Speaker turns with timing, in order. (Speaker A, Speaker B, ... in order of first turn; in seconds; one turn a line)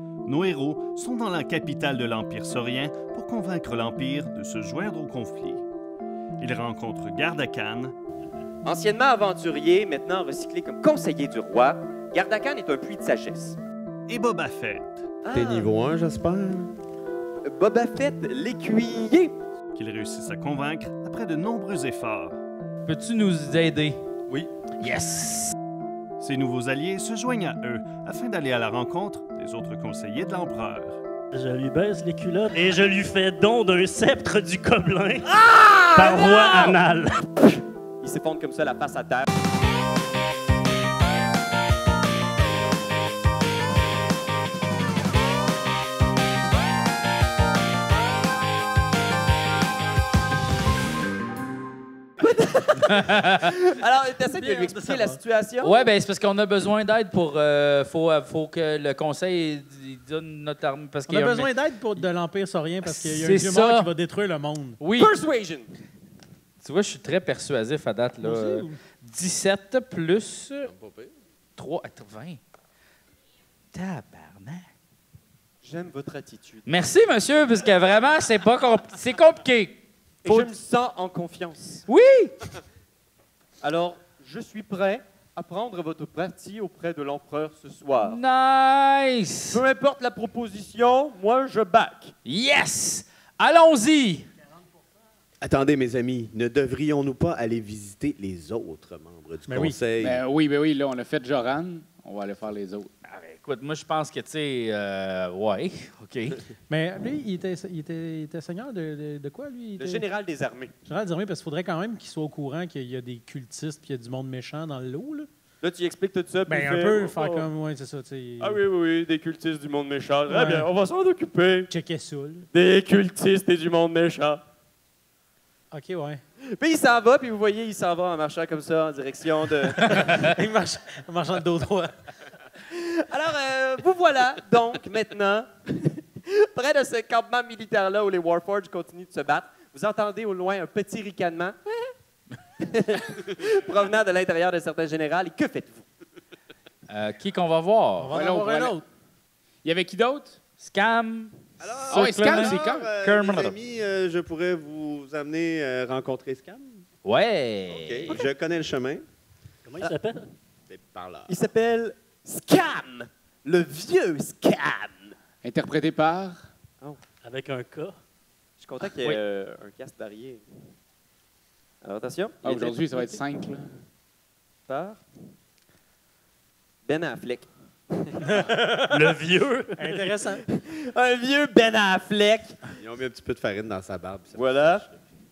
Speaker A: 0.2-5.7
Speaker A: 6.4-7.9
Speaker B: 8.6-13.6
Speaker A: 14.1-15.1
Speaker B: 15.2-15.7
Speaker C: 15.3-16.8
Speaker B: 17.4-19.3
Speaker A: 19.7-22.4
Speaker D: 22.9-24.0
Speaker D: 24.8-25.5
Speaker A: 26.2-31.0
Speaker E: 31.3-37.3
Speaker B: 35.5-36.7
Speaker B: 38.0-39.3
Speaker B: 52.2-55.8
Speaker D: 52.8-53.5
Speaker F: 54.3-55.2
Speaker D: 55.6-62.1
Speaker F: 61.1-64.8
Speaker D: 62.8-63.9
Speaker D: 64.8-65.1
Speaker B: 65.0-65.7
Speaker D: 66.6-70.7
Speaker F: 68.2-68.8
Speaker C: 70.6-71.1
Speaker D: 71.6-72.4
Speaker D: 73.7-74.7
Speaker B: 75.6-76.6
Speaker D: 76.7-80.5
Speaker B: 80.2-81.8
Speaker D: 81.9-82.3
Speaker B: 83.6-88.2
Speaker D: 88.0-89.6
Speaker B: 89.5-92.1
Speaker D: 92.2-94.3
Speaker C: 95.4-100.2
Speaker F: 99.5-99.8
Speaker G: 100.0-102.9
Speaker D: 103.0-106.4
Speaker F: 106.7-110.0
Speaker B: 109.8-110.7
Speaker F: 110.8-115.3
Speaker B: 115.6-117.5
Speaker F: 116.5-118.6
Speaker B: 118.4-121.7
Speaker F: 120.3-120.7
Speaker F: 121.7-122.5
Speaker B: 122.5-124.4
Speaker F: 125.7-126.2
Speaker B: 126.5-130.3
Speaker F: 129.8-131.9
Speaker B: 132.6-141.9
Speaker B: 142.6-145.8
Speaker D: 146.9-148.2
Speaker F: 148.0-148.8
Speaker G: 148.1-148.8
Speaker G: 149.6-150.4
Speaker D: 150.6-153.6
Speaker C: 151.6-156.8
Speaker G: 151.9-152.9
Speaker D: 157.0-158.2
Speaker C: 157.7-159.0
Speaker E: 159.7-160.3
Speaker C: 160.7-161.3
Speaker B: 161.3-165.1
Speaker G: 165.4-166.5
Speaker E: 167.2-168.0
Speaker B: 168.6-170.4
Speaker B: 171.8-173.2
Speaker G: 172.4-173.7
Speaker B: 174.7-175.0
Speaker B: 176.8-178.5
Speaker F: 178.3-179.1
Speaker E: 178.9-180.1
Speaker F: 179.8-180.4
Speaker B: 180.5-182.7
Speaker C: 182.8-185.0
Speaker B: 184.3-184.8